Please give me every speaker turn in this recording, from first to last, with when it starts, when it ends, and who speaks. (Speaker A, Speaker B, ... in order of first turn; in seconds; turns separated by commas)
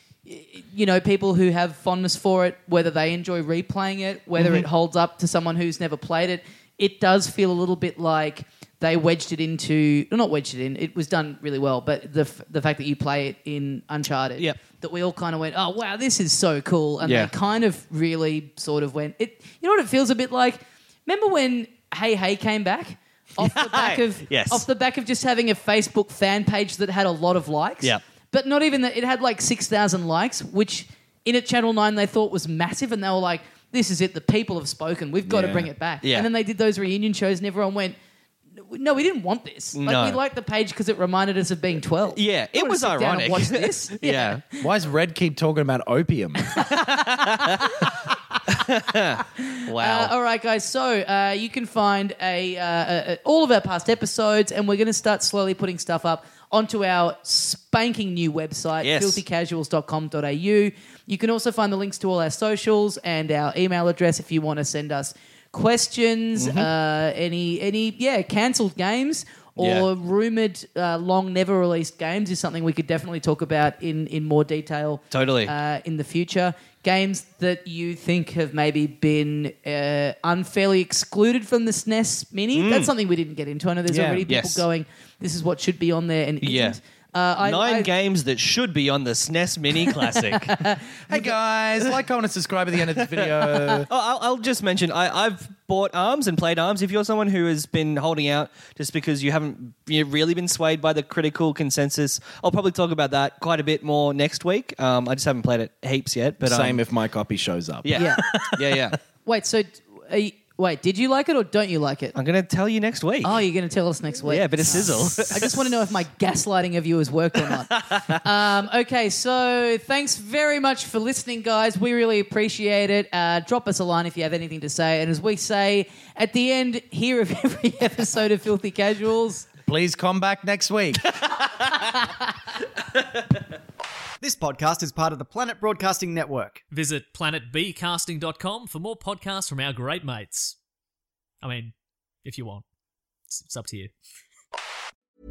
Speaker A: 0.3-38.0, Speaker B: 4.4-4.7, Speaker B: 17.0-17.3, Speaker B: 23.4-24.6, Speaker C: 35.2-35.7, Speaker B: 36.0-36.3, Speaker A: 38.6-44.4, Speaker B: 39.8-40.2, Speaker B: 42.1-44.4, Speaker C: 44.6-46.5, Speaker A: 46.5-47.9, Speaker B: 46.7-47.8, Speaker B: 48.5-50.1, Speaker A: 49.4-87.9, Speaker B: 58.8-59.2, Speaker B: 66.4-66.7, Speaker B: 69.6-69.9, Speaker B: 75.1-75.5, Speaker B: 82.5-82.9, Speaker C: 83.9-84.3, Speaker B: 84.3-84.7, Speaker B: 86.4-86.8, Speaker B: 87.4-90.6, Speaker A: 90.4-90.8, Speaker C: 91.1-93.9, Speaker B: 93.0-106.8, Speaker C: 106.4-108.8, Speaker B: 107.8-109.0, Speaker A: 108.0-108.2, Speaker A: 109.3-112.2, Speaker B: 112.2-113.5, Speaker A: 113.2-129.5, Speaker B: 114.3-115.7, Speaker B: 117.5-118.2, Speaker C: 129.7-131.2, Speaker D: 134.2-136.7, Speaker E: 136.7-140.6, Speaker E: 141.4-141.7, Speaker E: 142.2-142.6, Speaker E: 143.3-143.9